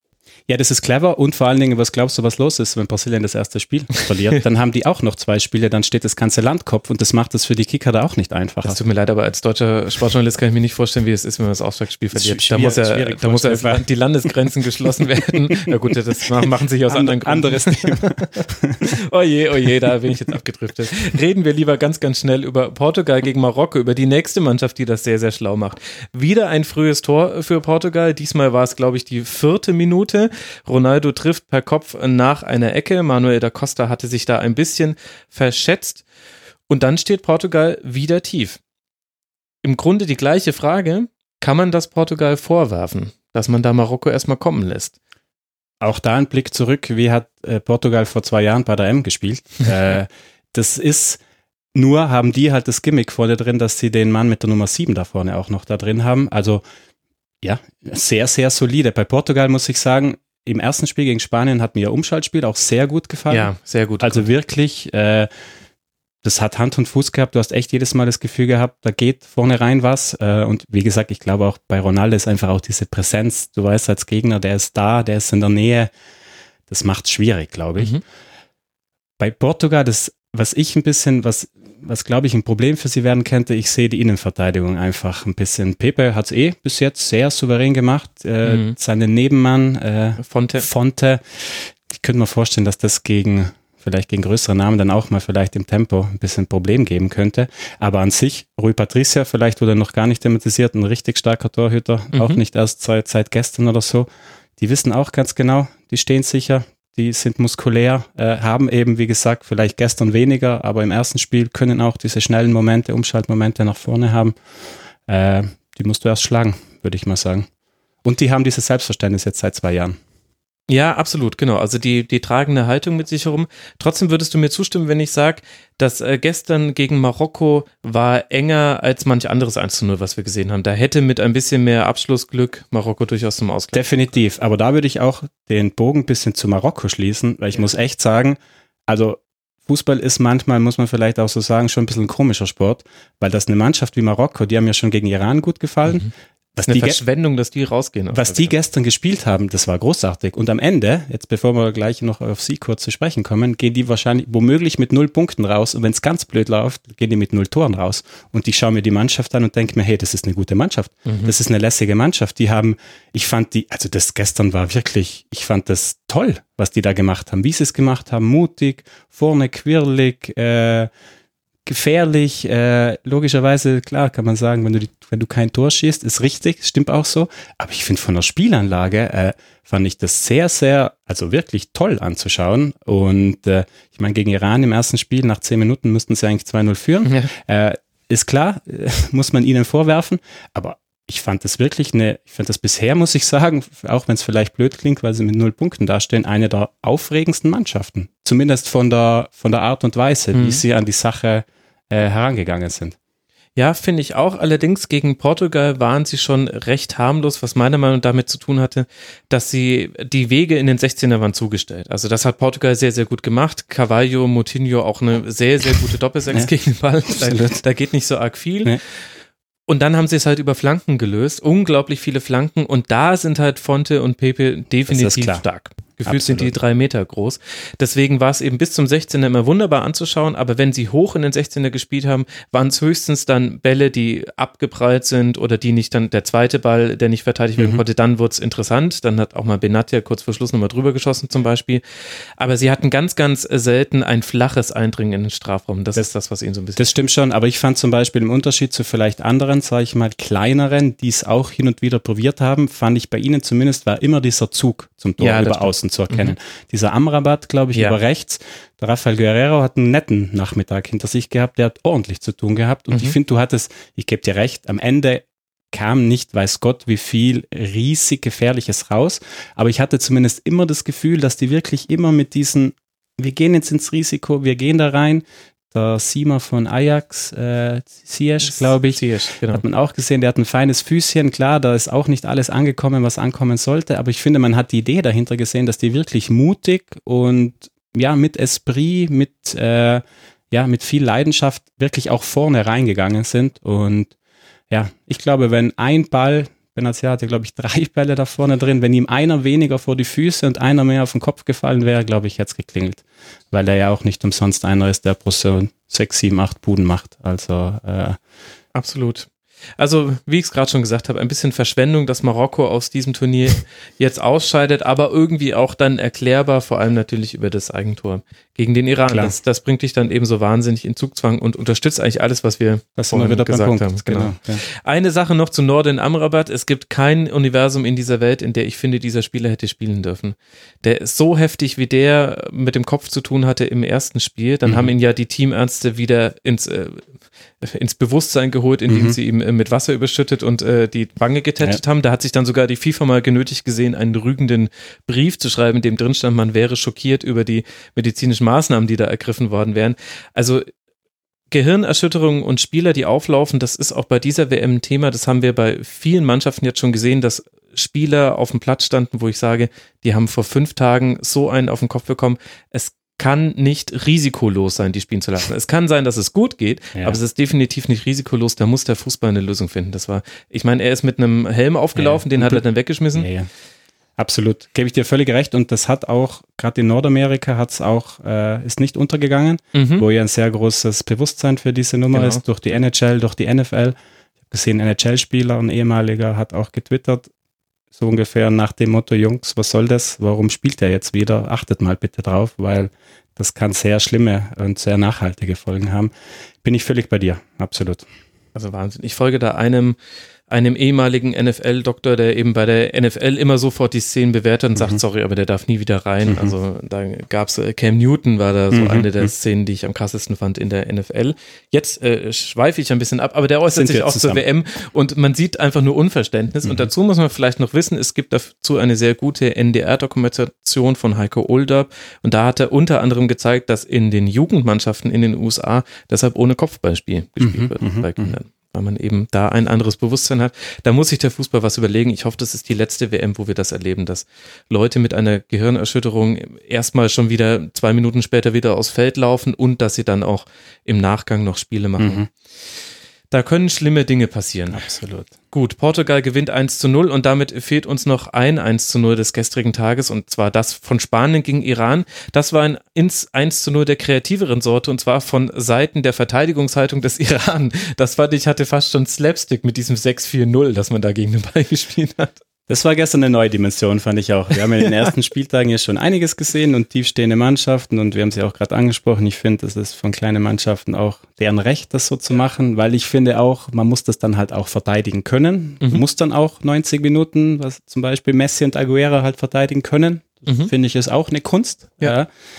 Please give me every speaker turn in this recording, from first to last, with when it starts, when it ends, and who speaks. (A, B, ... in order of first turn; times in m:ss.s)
0:00.5-0:08.8 A
0:08.6-0:36.0 B
0:12.1-0:13.8 A
0:15.0-0:15.9 A
0:16.9-0:18.8 A
0:36.7-0:38.6 B
0:39.6-0:45.0 B
0:45.8-0:51.2 A
0:51.8-0:56.6 A
0:57.4-1:05.3 A
1:03.3-1:04.3 B
1:06.2-1:15.9 A
1:16.7-1:18.0 A
1:17.8-1:18.0 B
1:19.2-1:54.4 A
1:28.4-1:28.8 B
1:30.2-1:30.7 B
1:42.1-1:42.4 B
1:55.1-1:57.5 A
1:58.0-2:00.0 A
2:00.7-2:13.8 B
2:13.7-2:18.4 A
2:18.9-2:27.0 A
2:26.6-2:28.5 B
2:28.1-2:50.9 A
2:41.1-2:41.3 B
2:51.7-3:23.0 A
3:07.1-3:07.3 B
3:20.3-3:20.6 B
3:23.6-3:38.8 B
3:37.1-3:37.6 A
3:39.7-4:01.8 B
3:44.9-3:45.4 A
3:46.1-3:46.5 A
4:02.4-4:06.8 B
4:06.8-4:54.1 A
4:15.2-4:16.3 B
4:38.4-4:39.6 B
4:54.7-5:08.2 A
5:08.7-5:37.1 B
5:19.1-5:19.3 A
5:23.0-5:24.6 A
5:34.7-5:34.9 A
5:37.6-5:50.7 B
5:38.9-5:39.2 A
5:51.5-6:13.3 B
6:12.0-6:12.6 A
6:13.2-6:13.5 A
6:14.2-6:24.0 A
6:19.7-6:20.0 B
6:22.1-6:22.4 B
6:24.5-6:27.3 A
6:28.0-6:36.1 A
6:36.6-6:38.1 A
6:38.6-6:40.0 B
6:40.5-7:22.3 B
6:46.3-6:46.5 A
6:48.7-6:49.3 A
6:53.7-6:54.4 A
7:07.4-7:08.3 A
7:22.0-7:22.3 A
7:23.3-7:42.4 B
7:24.7-7:25.3 A
7:42.7-8:02.3 A